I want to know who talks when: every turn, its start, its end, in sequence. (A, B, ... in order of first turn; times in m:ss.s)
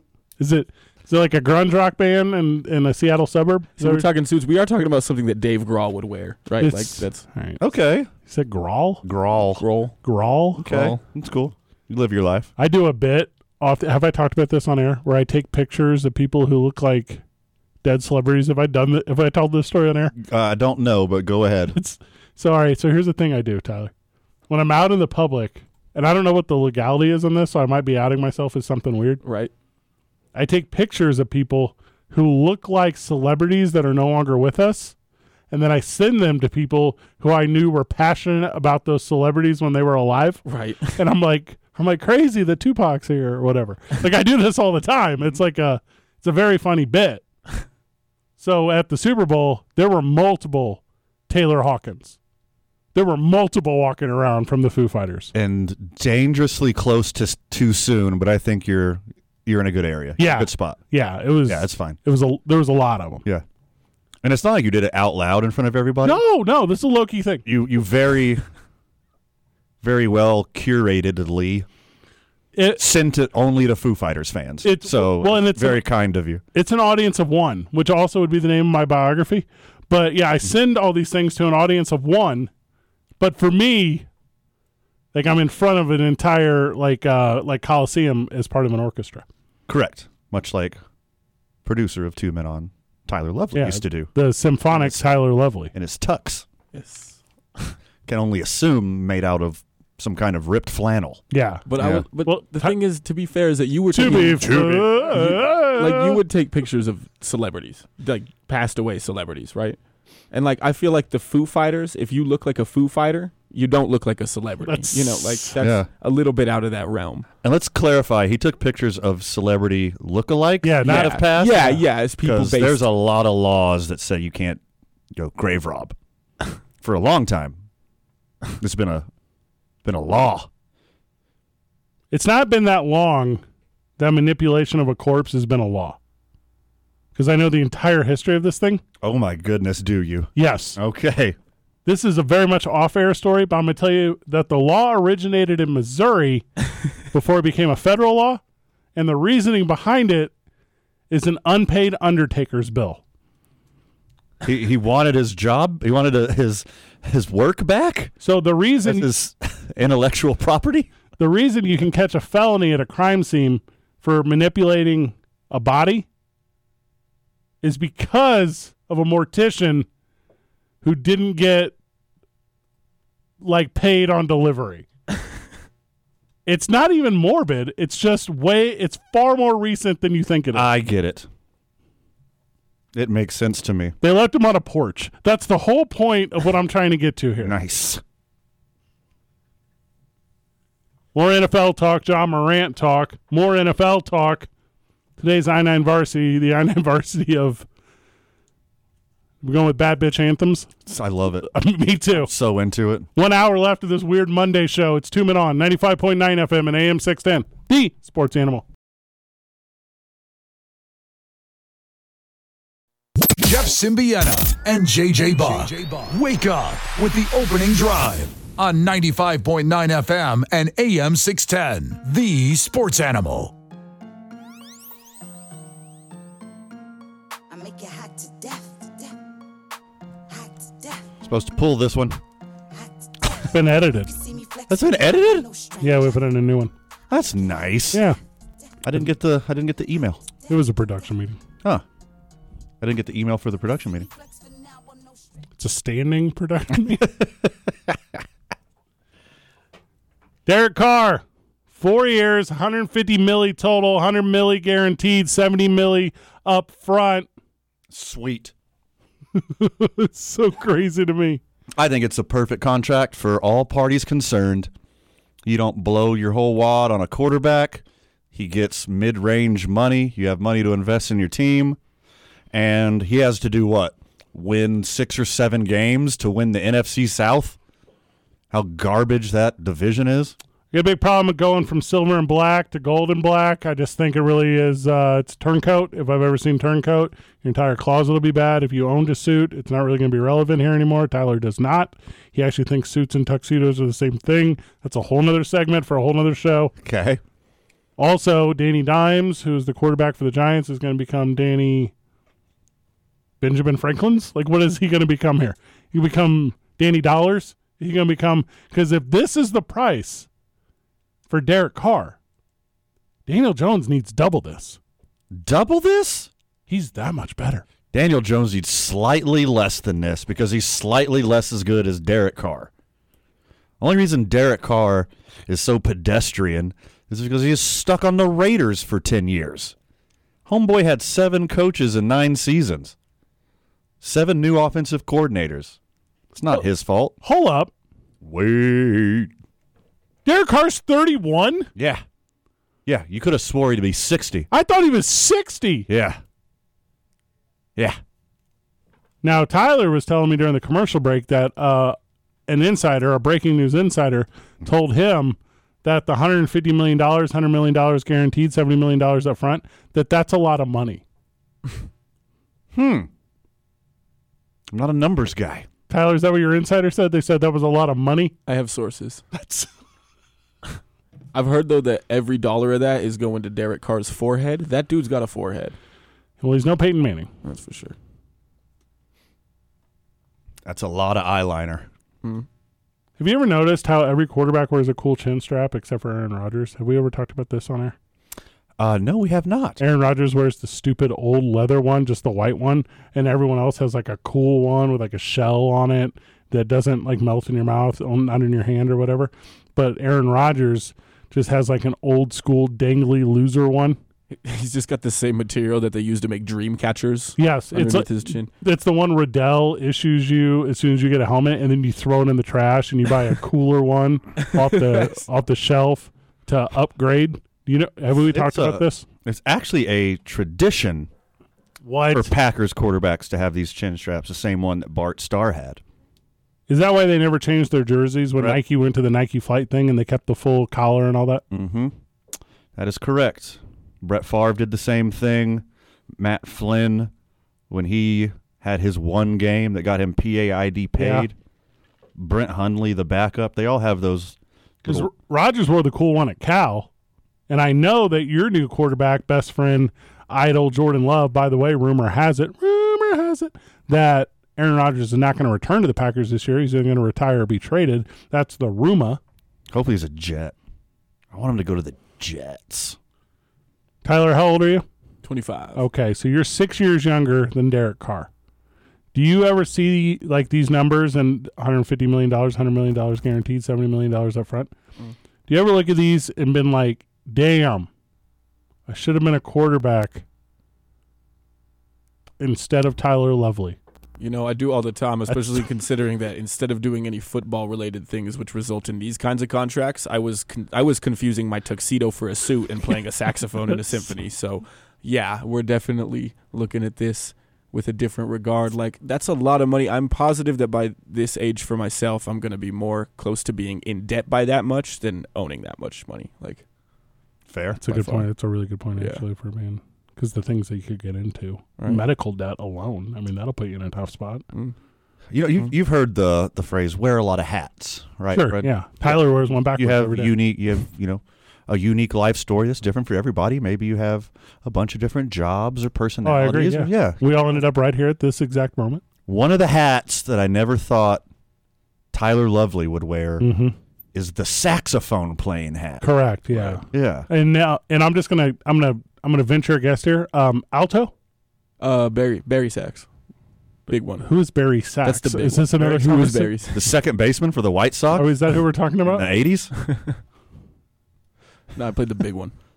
0:00.4-0:04.1 A
0:03.8-0:07.2 B
0:06.6-0:07.6 A
0:07.6-0:08.1 C
0:08.3-0:09.0 A
0:09.0-0:09.6 C
0:09.6-0:10.0 B
0:10.0-0:10.9 A
0:10.6-0:12.5 C
0:10.7-0:11.0 B
0:12.6-0:17.2 A
0:17.8-0:20.2 A
0:20.2-0:21.8 C
0:21.7-0:23.9 A
0:24.5-0:29.2 A
0:29.2-0:29.5 B
0:30.3-0:35.0 A
0:35.5-0:47.2 A
0:40.5-0:41.0 B
0:48.4-0:52.2 A
0:52.9-0:55.3 A
0:55.3-1:00.8 C
1:00.2-1:03.2 A
1:01.5-1:02.0 C
1:04.2-1:06.2 C
1:06.0-1:07.4 A
1:07.4-1:08.4 C
1:09.8-1:11.7 C
1:12.6-1:12.8 A
1:12.8-1:16.4 C
1:14.6-1:15.8 A
1:16.5-1:22.5 A
1:23.2-1:24.1 A
1:25.1-1:29.3 A
1:29.7-1:30.8 C
1:31.6-1:34.1 C
1:33.5-1:35.7 A
1:34.7-1:35.0 C
1:35.7-1:36.5 C
1:36.7-1:37.7 B
1:38.1-1:41.2 C
1:41.3-1:42.8 A
1:41.7-1:49.8 B
1:41.8-1:42.0 C
1:43.9-1:46.2 A
1:44.2-1:45.0 C
1:50.3-1:57.3 B
1:54.6-1:55.5 A
1:55.6-1:55.9 C
1:57.4-2:04.6 C
2:00.6-2:01.2 A
2:00.9-2:02.9 B
2:05.2-2:06.0 C
2:06.8-2:07.6 C
2:08.6-2:09.1 C
2:09.8-2:10.5 C
2:12.1-2:13.4 A
2:14.0-2:16.0 A
2:17.2-2:18.8 A
2:19.0-2:21.4 C
2:20.4-2:20.8 A
2:21.9-2:26.5 A
2:27.1-2:28.4 A
2:29.0-2:30.3 A
2:31.1-2:33.0 A
2:34.4-2:38.1 C
2:38.2-2:39.1 A
2:38.8-2:40.9 C
2:41.2-2:46.1 A
2:47.6-2:49.9 A
2:50.8-2:51.8 A
2:53.4-2:54.9 A
2:56.5-3:00.7 A
3:00.5-3:01.3 C
3:02.9-3:04.0 C
3:04.0-3:07.6 A
3:07.4-3:08.0 C
3:11.1-3:14.5 A
3:15.2-3:17.7 A
3:19.4-3:20.7 A
3:20.9-3:21.5 C
3:21.5-3:22.3 A
3:22.1-3:23.1 C
3:23.2-3:28.6 A
3:33.4-3:43.5 D
3:47.5-3:49.2 E
3:50.3-3:51.1 E
3:51.2-3:52.2 C
3:52.7-3:56.2 E
3:53.5-3:54.1 A
3:54.7-3:55.5 C
3:55.8-3:56.7 A
3:57.1-3:58.0 C
3:57.9-3:58.2 A
3:58.8-4:00.2 C
4:00.5-4:01.4 A
4:02.8-4:04.1 C
4:03.9-4:05.4 E
4:05.6-4:07.1 A
4:07.0-4:07.5 C
4:10.5-4:17.3 A
4:17.9-4:18.5 C
4:19.4-4:21.4 A
4:21.8-4:24.7 C
4:25.4-4:31.8 C
4:32.5-4:37.6 C
4:38.5-4:40.4 C
4:40.7-4:56.7 A
4:56.8-4:57.2 C
4:58.0-5:01.9 A
5:03.4-5:10.3 A
5:11.3-5:12.2 A
5:13.3-5:14.8 A
5:15.3-5:16.3 C
5:16.7-5:17.6 A
5:17.9-5:22.7 C
5:23.8-5:29.8 C
5:30.5-5:33.0 C
5:34.0-5:35.8 C
5:36.4-5:37.2 C
5:37.2-5:37.7 A
5:38.2-5:39.3 C
5:40.2-5:41.7 A
5:41.8-5:42.0 C
5:42.9-5:44.5 C
5:44.5-5:45.9 A
5:45.9-5:46.2 C
5:49.2-5:52.0 A
5:52.5-6:01.0 A
6:02.7-6:03.1 C
6:04.7-6:05.7 C
6:05.9-6:08.3 A
6:08.5-6:09.2 B
6:09.4-6:09.7 C
6:11.3-6:15.8 B
6:16.4-6:17.3 A
6:17.4-6:18.0 B
6:20.6-6:21.9 C
6:23.2-6:28.0 A
6:28.8-6:29.8 C
6:29.8-6:44.0 A
6:44.3-6:48.5 B
6:47.4-6:59.0 A
6:54.5-6:55.2 B
6:58.2-7:01.1 C
7:01.8-7:02.3 A
7:02.1-7:05.8 C
7:06.7-7:11.4 A
7:11.5-7:11.9 C
7:12.8-7:15.6 C
7:16.2-7:17.1 C
7:17.7-7:21.4 C
7:21.0-7:21.3 A
7:22.2-7:25.1 C
7:24.8-7:26.9 A
7:27.5-7:39.2 A
7:39.7-7:40.6 C
7:41.3-7:43.0 C
7:44.0-7:44.9 A
7:45.2-7:45.8 B
7:45.8-7:48.3 A
7:49.1-7:54.7 A
7:55.5-7:57.9 A
7:58.9-8:00.2 A
8:02.4-8:03.8 A
8:04.2-8:26.6 B
8:05.3-8:05.6 A
8:27.5-8:28.2 C
8:27.8-8:34.4 A
8:35.3-8:47.2 C
8:38.3-8:40.3 A
8:46.2-8:49.0 A
8:49.3-8:51.2 C
8:52.1-8:53.5 C
8:53.4-8:53.8 A
8:54.1-8:57.3 C
8:56.0-9:01.1 A
9:01.8-9:03.1 B
9:03.9-9:04.3 B
9:04.2-9:06.5 A
9:05.0-9:06.8 B
9:06.7-9:09.7 C
9:08.1-9:09.3 A
9:09.8-9:10.1 B
9:11.8-9:12.5 B